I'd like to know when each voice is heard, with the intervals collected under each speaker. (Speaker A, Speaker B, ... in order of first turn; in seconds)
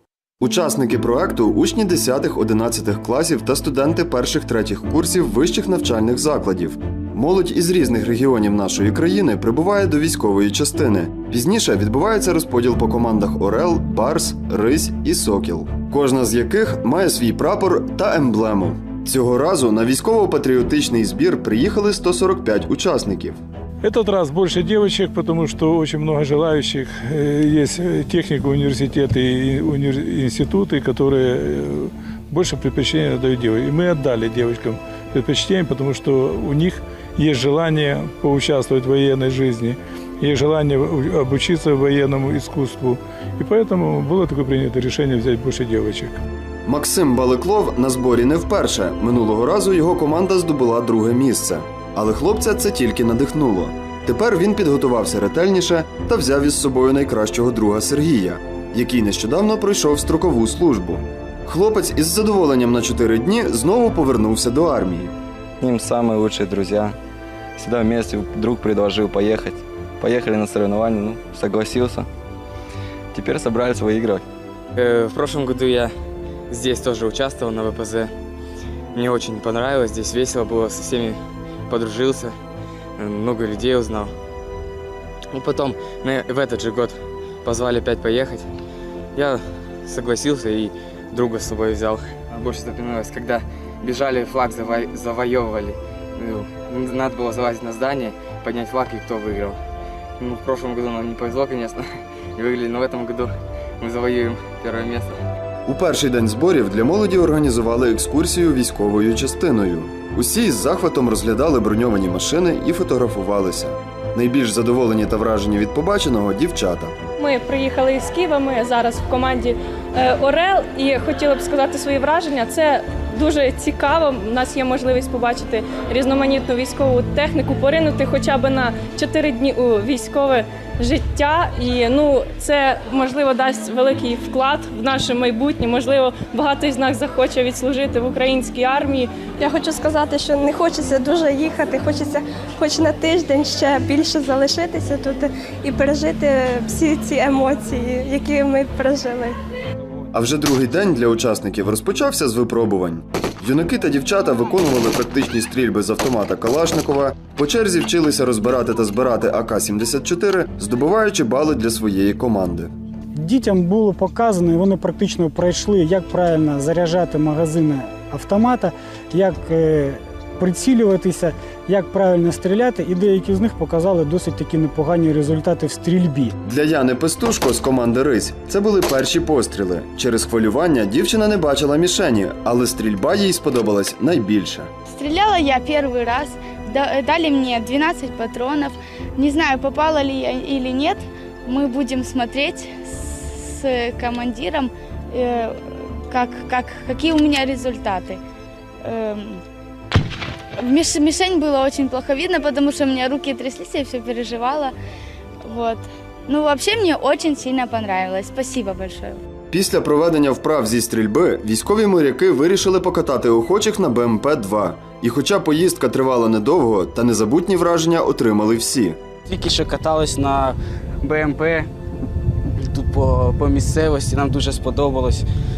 Speaker A: 0.4-23.4, 46.7-65.1, 105.7-117.0, 150.1-162.7, 176.4-184.7, 209.5-219.0
Speaker B: 23.8-46.2
Speaker C: 65.6-67.0, 67.6-72.1, 73.1-74.2
Speaker D: 74.8-75.9, 76.5-78.1, 79.0-81.2, 81.7-82.3, 83.0-84.1, 85.3-88.5, 89.2-99.6, 100.2-101.8, 102.4-105.1
Speaker E: 117.2-139.2
Speaker F: 139.4-149.4
Speaker G: 163.2-176.3
Speaker H: 184.9-198.2, 198.8-199.4, 200.6-204.7, 205.4-209.2
Speaker I: 219.2-221.7, 222.7-225.2